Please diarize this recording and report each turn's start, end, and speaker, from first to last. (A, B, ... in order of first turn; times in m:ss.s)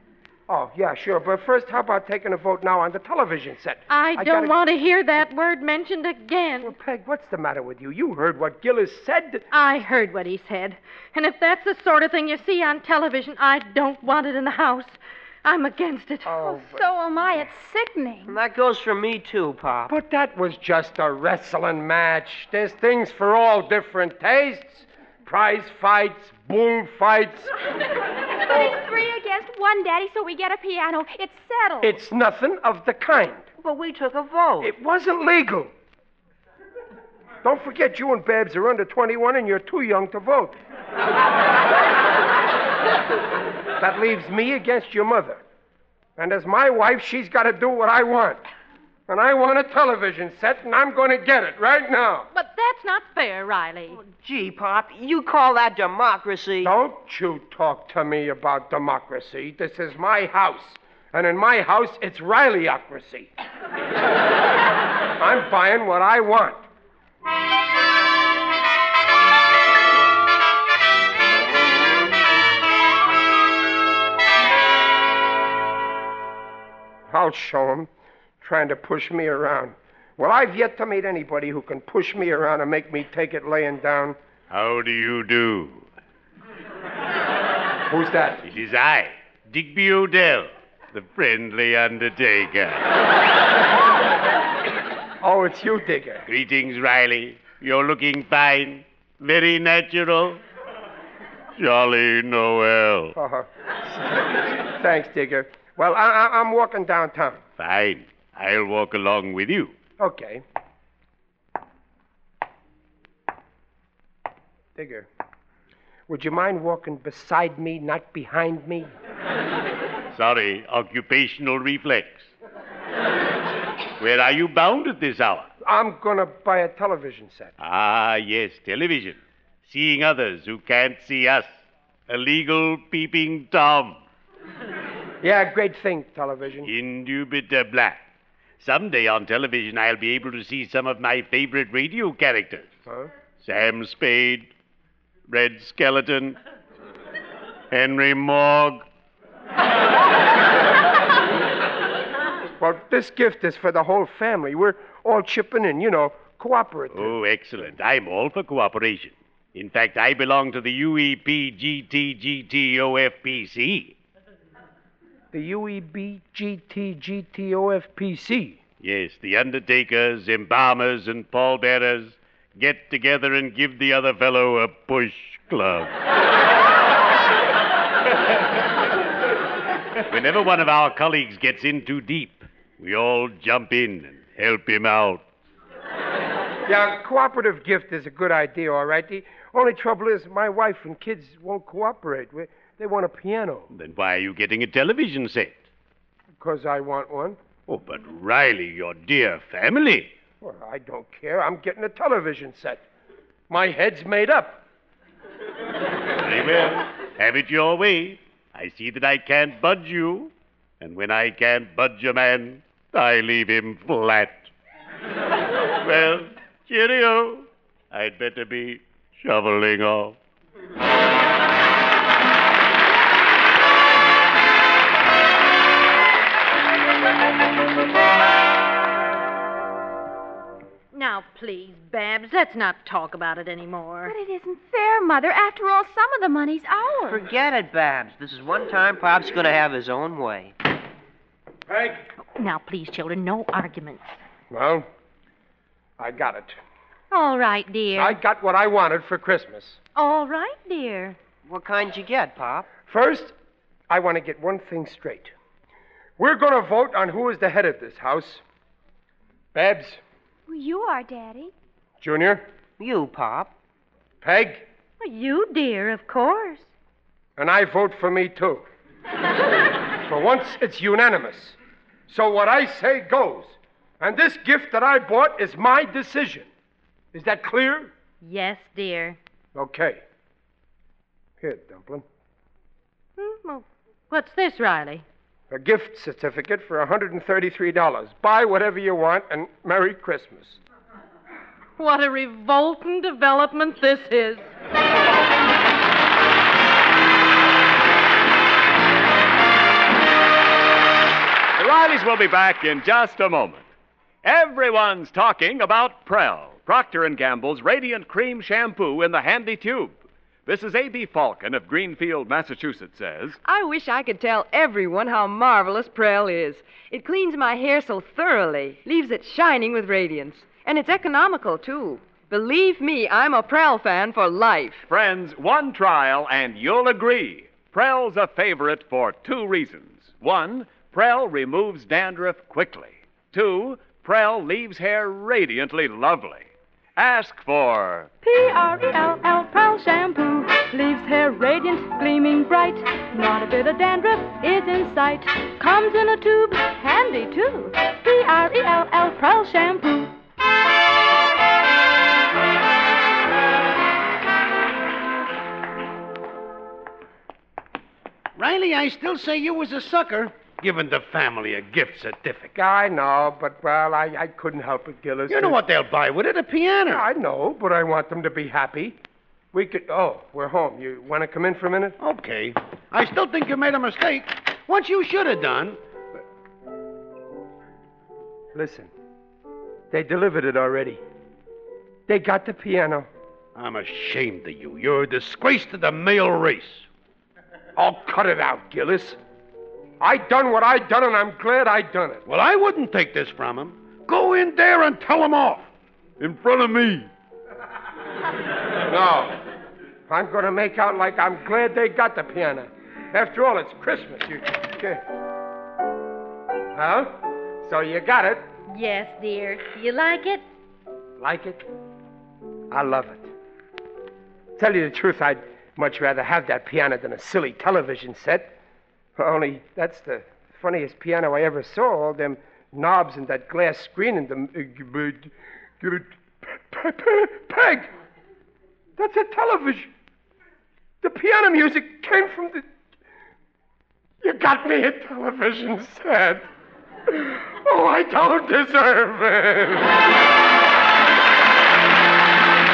0:00.5-0:04.6 A
0:03.9-0:06.7 B
0:06.6-0:09.5 A
0:09.5-0:16.4 B
0:16.3-0:16.8 A
0:16.4-0:18.4 C
0:18.3-0:19.9 D
0:19.9-0:27.5 A
0:28.4-0:32.0 C
0:31.8-0:33.5 A
0:33.6-0:34.7 D
0:34.6-0:35.7 A
0:37.4-0:40.6 A
0:43.8-0:45.4 A
0:46.2-0:48.4 A
0:49.1-0:52.3 A
0:52.3-0:54.0 B
0:54.1-0:56.7 D
0:56.6-1:03.3 A
1:05.2-1:06.6 A
1:17.1-1:24.2 A
1:24.5-1:25.9 E
1:27.9-1:28.4 A
1:28.4-1:32.9 E
1:35.2-1:36.3 A
1:36.3-1:40.4 E
1:41.6-1:43.2 E
1:43.2-1:47.4 A
1:47.6-1:49.8 E
1:50.0-1:50.4 A
1:54.8-1:55.1 A
1:56.1-1:58.9 A
2:00.1-2:02.3 E
2:04.0-2:05.5 E
2:05.6-2:07.6 A
2:07.6-2:11.5 E
2:12.1-2:14.0 E
2:15.2-2:16.7 A
2:16.6-2:18.0 E
2:18.6-2:22.7 E
2:23.4-2:24.5 E
2:25.3-2:26.4 E
2:27.7-2:28.8 E
2:32.6-2:37.2 A
2:36.9-2:44.0 E
2:45.3-2:48.6 A
2:48.8-2:55.9 E
3:00.1-3:05.2 E
3:06.7-3:13.7 A
3:13.7-3:15.6 E
3:16.4-3:17.4 A
3:17.7-3:20.1 E
3:20.4-3:22.8 A
3:23.5-3:24.6 A
3:26.2-3:34.5 E
3:35.8-3:40.2 E
3:50.9-3:54.2 B
3:54.0-3:57.2 C
3:57.1-4:00.6 D
4:01.7-4:02.0 E
4:02.4-4:04.1 B
4:04.5-4:04.9 A
4:06.0-4:06.6 A
4:07.1-4:08.2 B
4:07.9-4:09.8 A
4:10.0-4:11.2 B
4:11.5-4:12.7 D
4:12.9-4:13.4 A
4:13.9-4:15.3 A
4:16.2-4:18.4 A
4:19.5-4:20.0 A
4:20.5-4:21.5 C
4:22.0-4:22.4 A
4:22.8-4:23.5 D
4:24.2-4:24.7 A
4:25.0-4:26.7 B
4:27.4-4:28.7 A
4:30.0-4:31.6 A
4:32.1-4:36.5 A
4:37.1-4:37.9 A
4:38.2-4:39.2 B
4:39.6-4:40.0 A
4:41.4-4:42.0 A
4:43.2-4:45.0 B
4:45.5-4:50.6 A
4:51.8-4:54.5 B
5:01.6-5:03.7 F
5:04.2-5:10.0 F
5:10.5-5:13.4 F
5:13.4-5:24.8 G
5:24.9-5:38.1 F
5:38.2-5:50.2 H
5:58.4-6:02.5 E
6:02.5-6:05.6 A
6:05.3-6:07.0 E
6:06.9-6:09.0 A
6:09.5-6:12.0 A
6:12.0-6:15.8 E
6:18.5-6:18.9 A
6:19.9-6:21.0 A
6:22.1-6:23.1 A
6:23.6-6:26.9 E
6:27.8-6:29.2 A
6:30.0-6:32.2 A
6:32.3-6:35.7 E
6:36.2-6:37.1 E
6:38.8-6:39.4 A
6:40.1-6:45.0 A
6:46.7-6:48.4 A
6:48.7-6:50.4 B
6:51.2-6:51.6 A
6:52.7-6:53.3 A
6:54.6-6:58.6 A
6:59.2-7:07.9 A
7:09.0-7:09.9 A
7:11.0-7:12.7 A
7:14.2-7:16.5 A
7:17.1-7:20.0 A